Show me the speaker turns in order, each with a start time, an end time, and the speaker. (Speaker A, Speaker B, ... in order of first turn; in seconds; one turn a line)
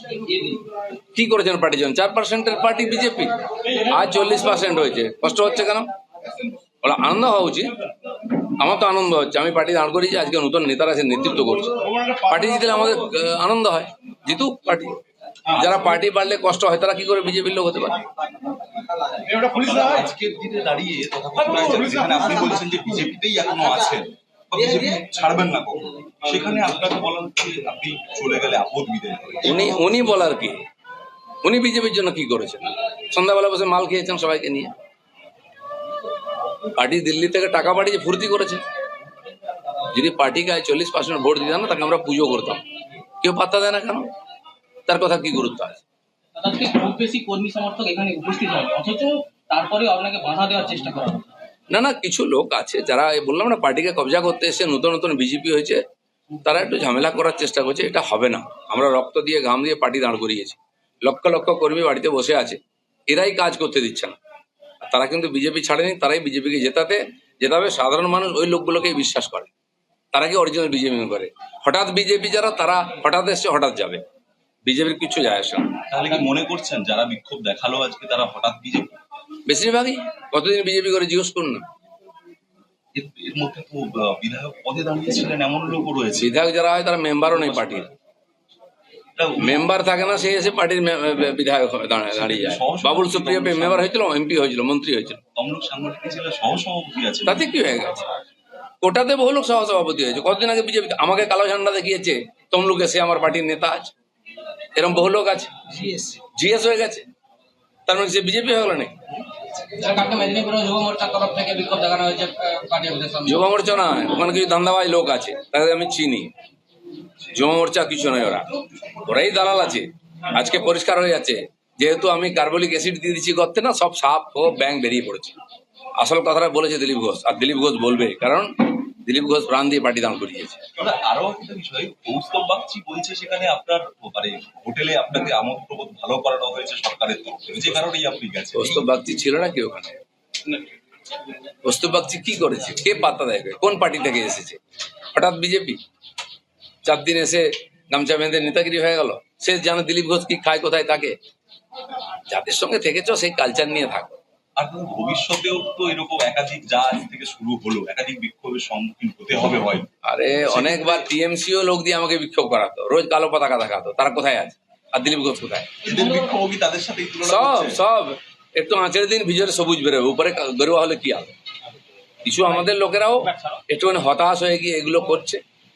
Speaker A: 1.1-3.3
Speaker A: 3.8-5.9
Speaker A: 6.8-7.7
Speaker A: 8.6-15.0
Speaker A: 15.5-18.0
Speaker B: 19.3-29.8
Speaker A: 29.4-30.6
Speaker A: 31.4-34.7
Speaker A: 36.8-38.6
Speaker A: 39.9-42.6
Speaker A: 43.2-44.1
Speaker A: 44.9-45.8
Speaker C: 46.4-51.3
Speaker A: 51.7-55.8
Speaker A: 56.4-64.2
Speaker A: 64.8-69.5
Speaker A: 70.1-74.0
Speaker A: 74.6-75.7
Speaker B: 75.9-79.0
Speaker A: 79.5-81.6
Speaker B: 82.9-86.3
Speaker A: 86.1-87.9
Speaker B: 87.6-87.9
Speaker B: 89.2-89.7
Speaker A: 89.4-95.2
Speaker B: 92.1-93.9
Speaker B: 95.3-97.5
Speaker A: 97.2-98.1
Speaker A: 98.8-103.9
Speaker A: 104.7-105.5
Speaker C: 105.8-106.2
Speaker A: 106.3-107.0
Speaker A: 107.9-108.9
Speaker C: 109.8-113.4
Speaker A: 113.2-116.3
Speaker A: 117.3-118.5
Speaker A: 119.0-125.4
Speaker A: 126.0-130.6
Speaker B: 130.8-138.9
Speaker A: 138.5-140.0
Speaker A: 141.6-144.6
Speaker A: 145.1-145.8
Speaker A: 146.8-151.2
Speaker A: 152.3-154.2
Speaker B: 154.6-159.9
Speaker A: 160.0-165.8
Speaker B: 160.4-161.1
Speaker B: 165.8-167.8
Speaker A: 167.2-171.3
Speaker A: 172.2-175.4